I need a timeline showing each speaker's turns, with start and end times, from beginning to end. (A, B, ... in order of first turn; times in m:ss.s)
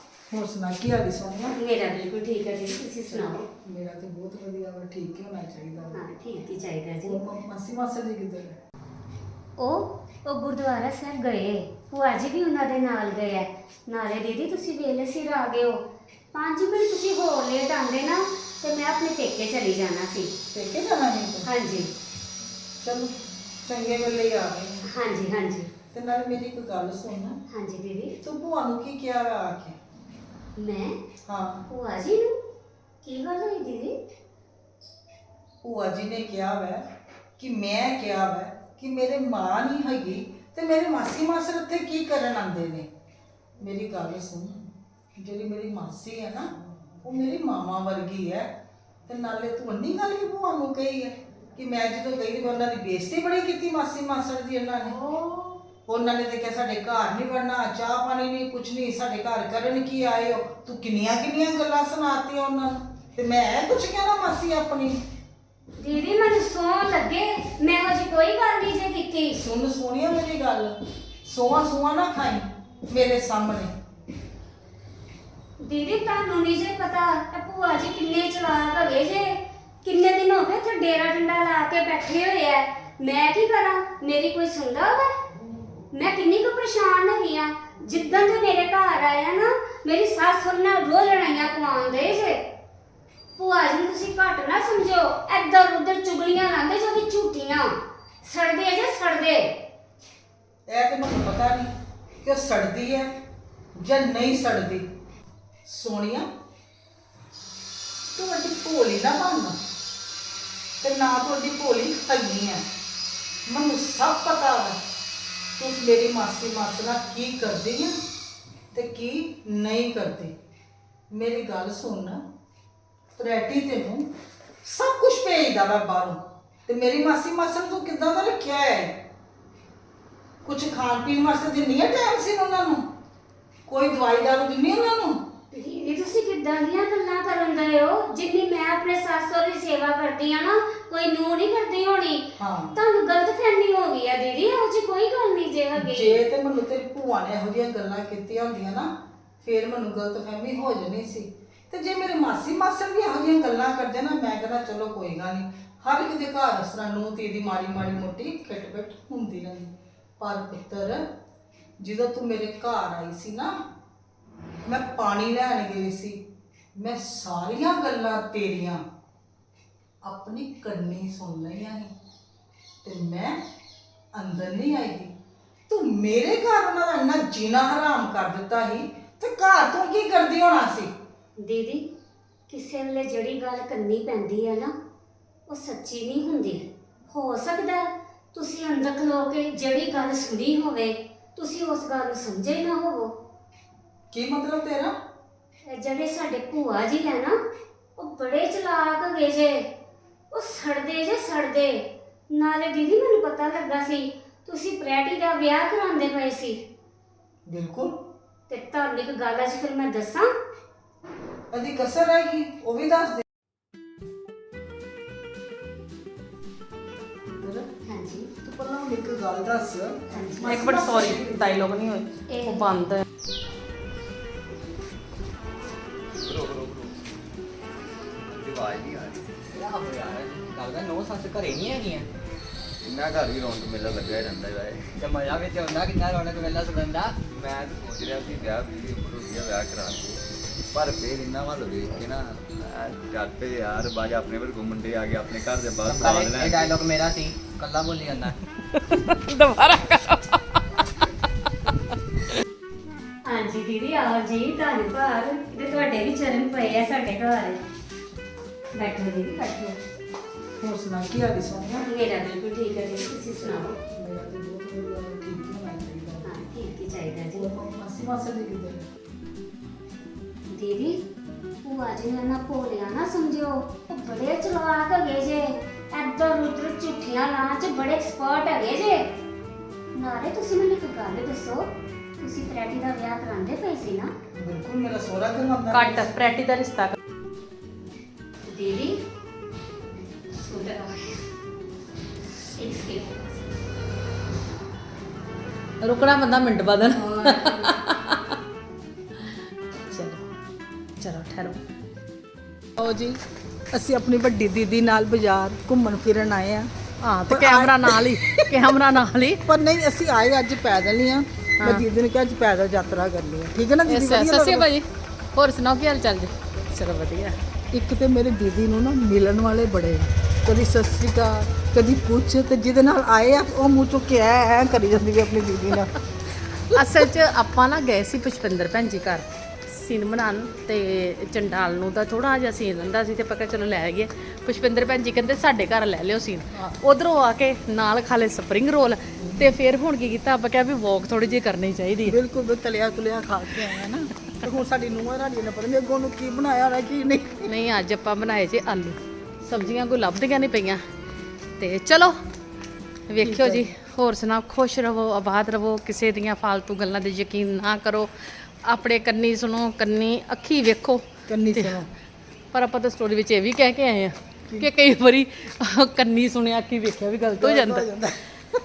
0:00.3-0:01.6 A
0:01.5-0:03.4 B
0:03.1-0:06.0 A
0:05.9-0:07.2 B
0:07.0-0:08.5 A
0:09.6-0:15.8 B
0:16.3-0:20.3 B
0:20.5-0:21.5 A
0:21.4-0:21.9 B
0:22.8-0:23.1 A
0:23.6-0:24.8 A
0:24.9-0:25.7 B
0:25.9-0:27.4 A
0:27.5-0:28.2 B
0:28.2-0:29.8 A
0:30.6-0:30.9 B
0:31.3-0:31.6 A
0:31.7-0:32.3 B
0:33.0-0:33.9 B
0:35.6-0:36.8 A
0:37.4-0:42.9 A
0:43.6-0:44.6 A
0:45.2-0:46.5 A
0:47.0-0:48.5 A
0:49.1-0:55.0 A
0:54.8-0:55.6 B
0:55.9-1:05.0 A
1:05.8-1:09.4 B
1:09.4-1:10.7 A
1:11.2-1:13.7 A
1:15.6-1:25.1 B
1:25.9-1:32.4 B
1:33.4-1:37.7 B
1:38.2-1:39.5 B
1:40.7-1:41.7 A
1:42.2-1:43.1 A
1:43.8-1:44.8 A
1:45.6-1:46.3 A
1:48.1-1:49.6 A
1:50.8-1:52.6 A
1:53.5-1:54.8 A
1:55.6-1:58.0 A
1:58.7-2:00.3 A
2:01.1-2:02.2 A
2:03.2-2:04.0 A
2:04.6-2:09.0 A
2:10.4-2:12.8 A
2:13.7-2:15.2 A
2:15.5-2:26.2 B
2:22.4-2:22.7 A
2:25.8-2:28.9 A
2:29.4-2:41.0 A
2:41.8-2:43.5 A
2:44.6-2:46.2 A
2:46.8-2:48.8 A
2:50.0-2:51.9 A
2:52.8-2:53.4 A
2:54.1-2:55.1 A
2:55.7-3:00.9 A
3:01.4-3:01.8 B
3:02.5-3:04.7 B
3:05.5-3:13.1 B
3:14.1-3:14.9 A
3:15.7-3:17.3 B
3:18.0-3:19.6 B
3:20.3-3:26.6 B
3:27.5-3:27.9 A
3:28.5-3:30.3 B
3:31.5-3:33.2 A
3:37.4-3:37.7 A
3:37.9-3:38.3 B
3:38.4-3:41.8 A
3:40.1-3:41.5 B
3:40.5-3:43.0 C
3:42.3-3:42.8 B
3:46.2-3:46.9 D
3:48.2-3:49.4 D
3:49.5-3:52.1 E
3:52.8-3:54.9 D
3:55.0-3:57.2 E
3:57.3-4:00.2 D
4:00.7-4:06.7 D
4:05.8-4:08.3 E
4:08.9-4:10.4 C
4:13.3-4:17.6 B
4:18.8-4:19.8 B
4:20.6-4:21.8 A
4:21.8-4:23.7 B
4:23.4-4:26.3 A
4:26.2-4:27.5 B
4:27.3-4:28.8 A
4:30.5-4:31.0 B
4:31.6-4:39.0 B
4:39.9-4:41.6 B
4:42.2-4:44.1 B
4:44.4-4:46.2 A
4:45.7-4:47.0 C
4:48.5-4:48.9 B
4:50.4-4:51.1 B
4:52.6-4:53.3 B
4:55.8-4:58.2 C
4:56.9-4:57.8 B
4:59.8-5:00.2 C
5:01.0-5:01.6 C
5:02.8-5:03.2 A
5:03.7-5:06.7 A
5:07.0-5:09.4 C
5:07.3-5:08.6 A
5:09.4-5:14.7 A
5:13.9-5:14.8 C
5:15.3-5:17.4 C
5:17.7-5:26.0 A
5:26.7-5:42.1 C
5:39.2-5:39.5 A
5:42.0-5:47.5 A
5:47.5-5:50.8 C
5:51.6-5:52.2 C
5:53.1-6:01.0 C
5:53.2-5:53.6 A
6:01.3-6:01.9 A
6:02.5-6:07.8 C
6:07.4-6:08.4 A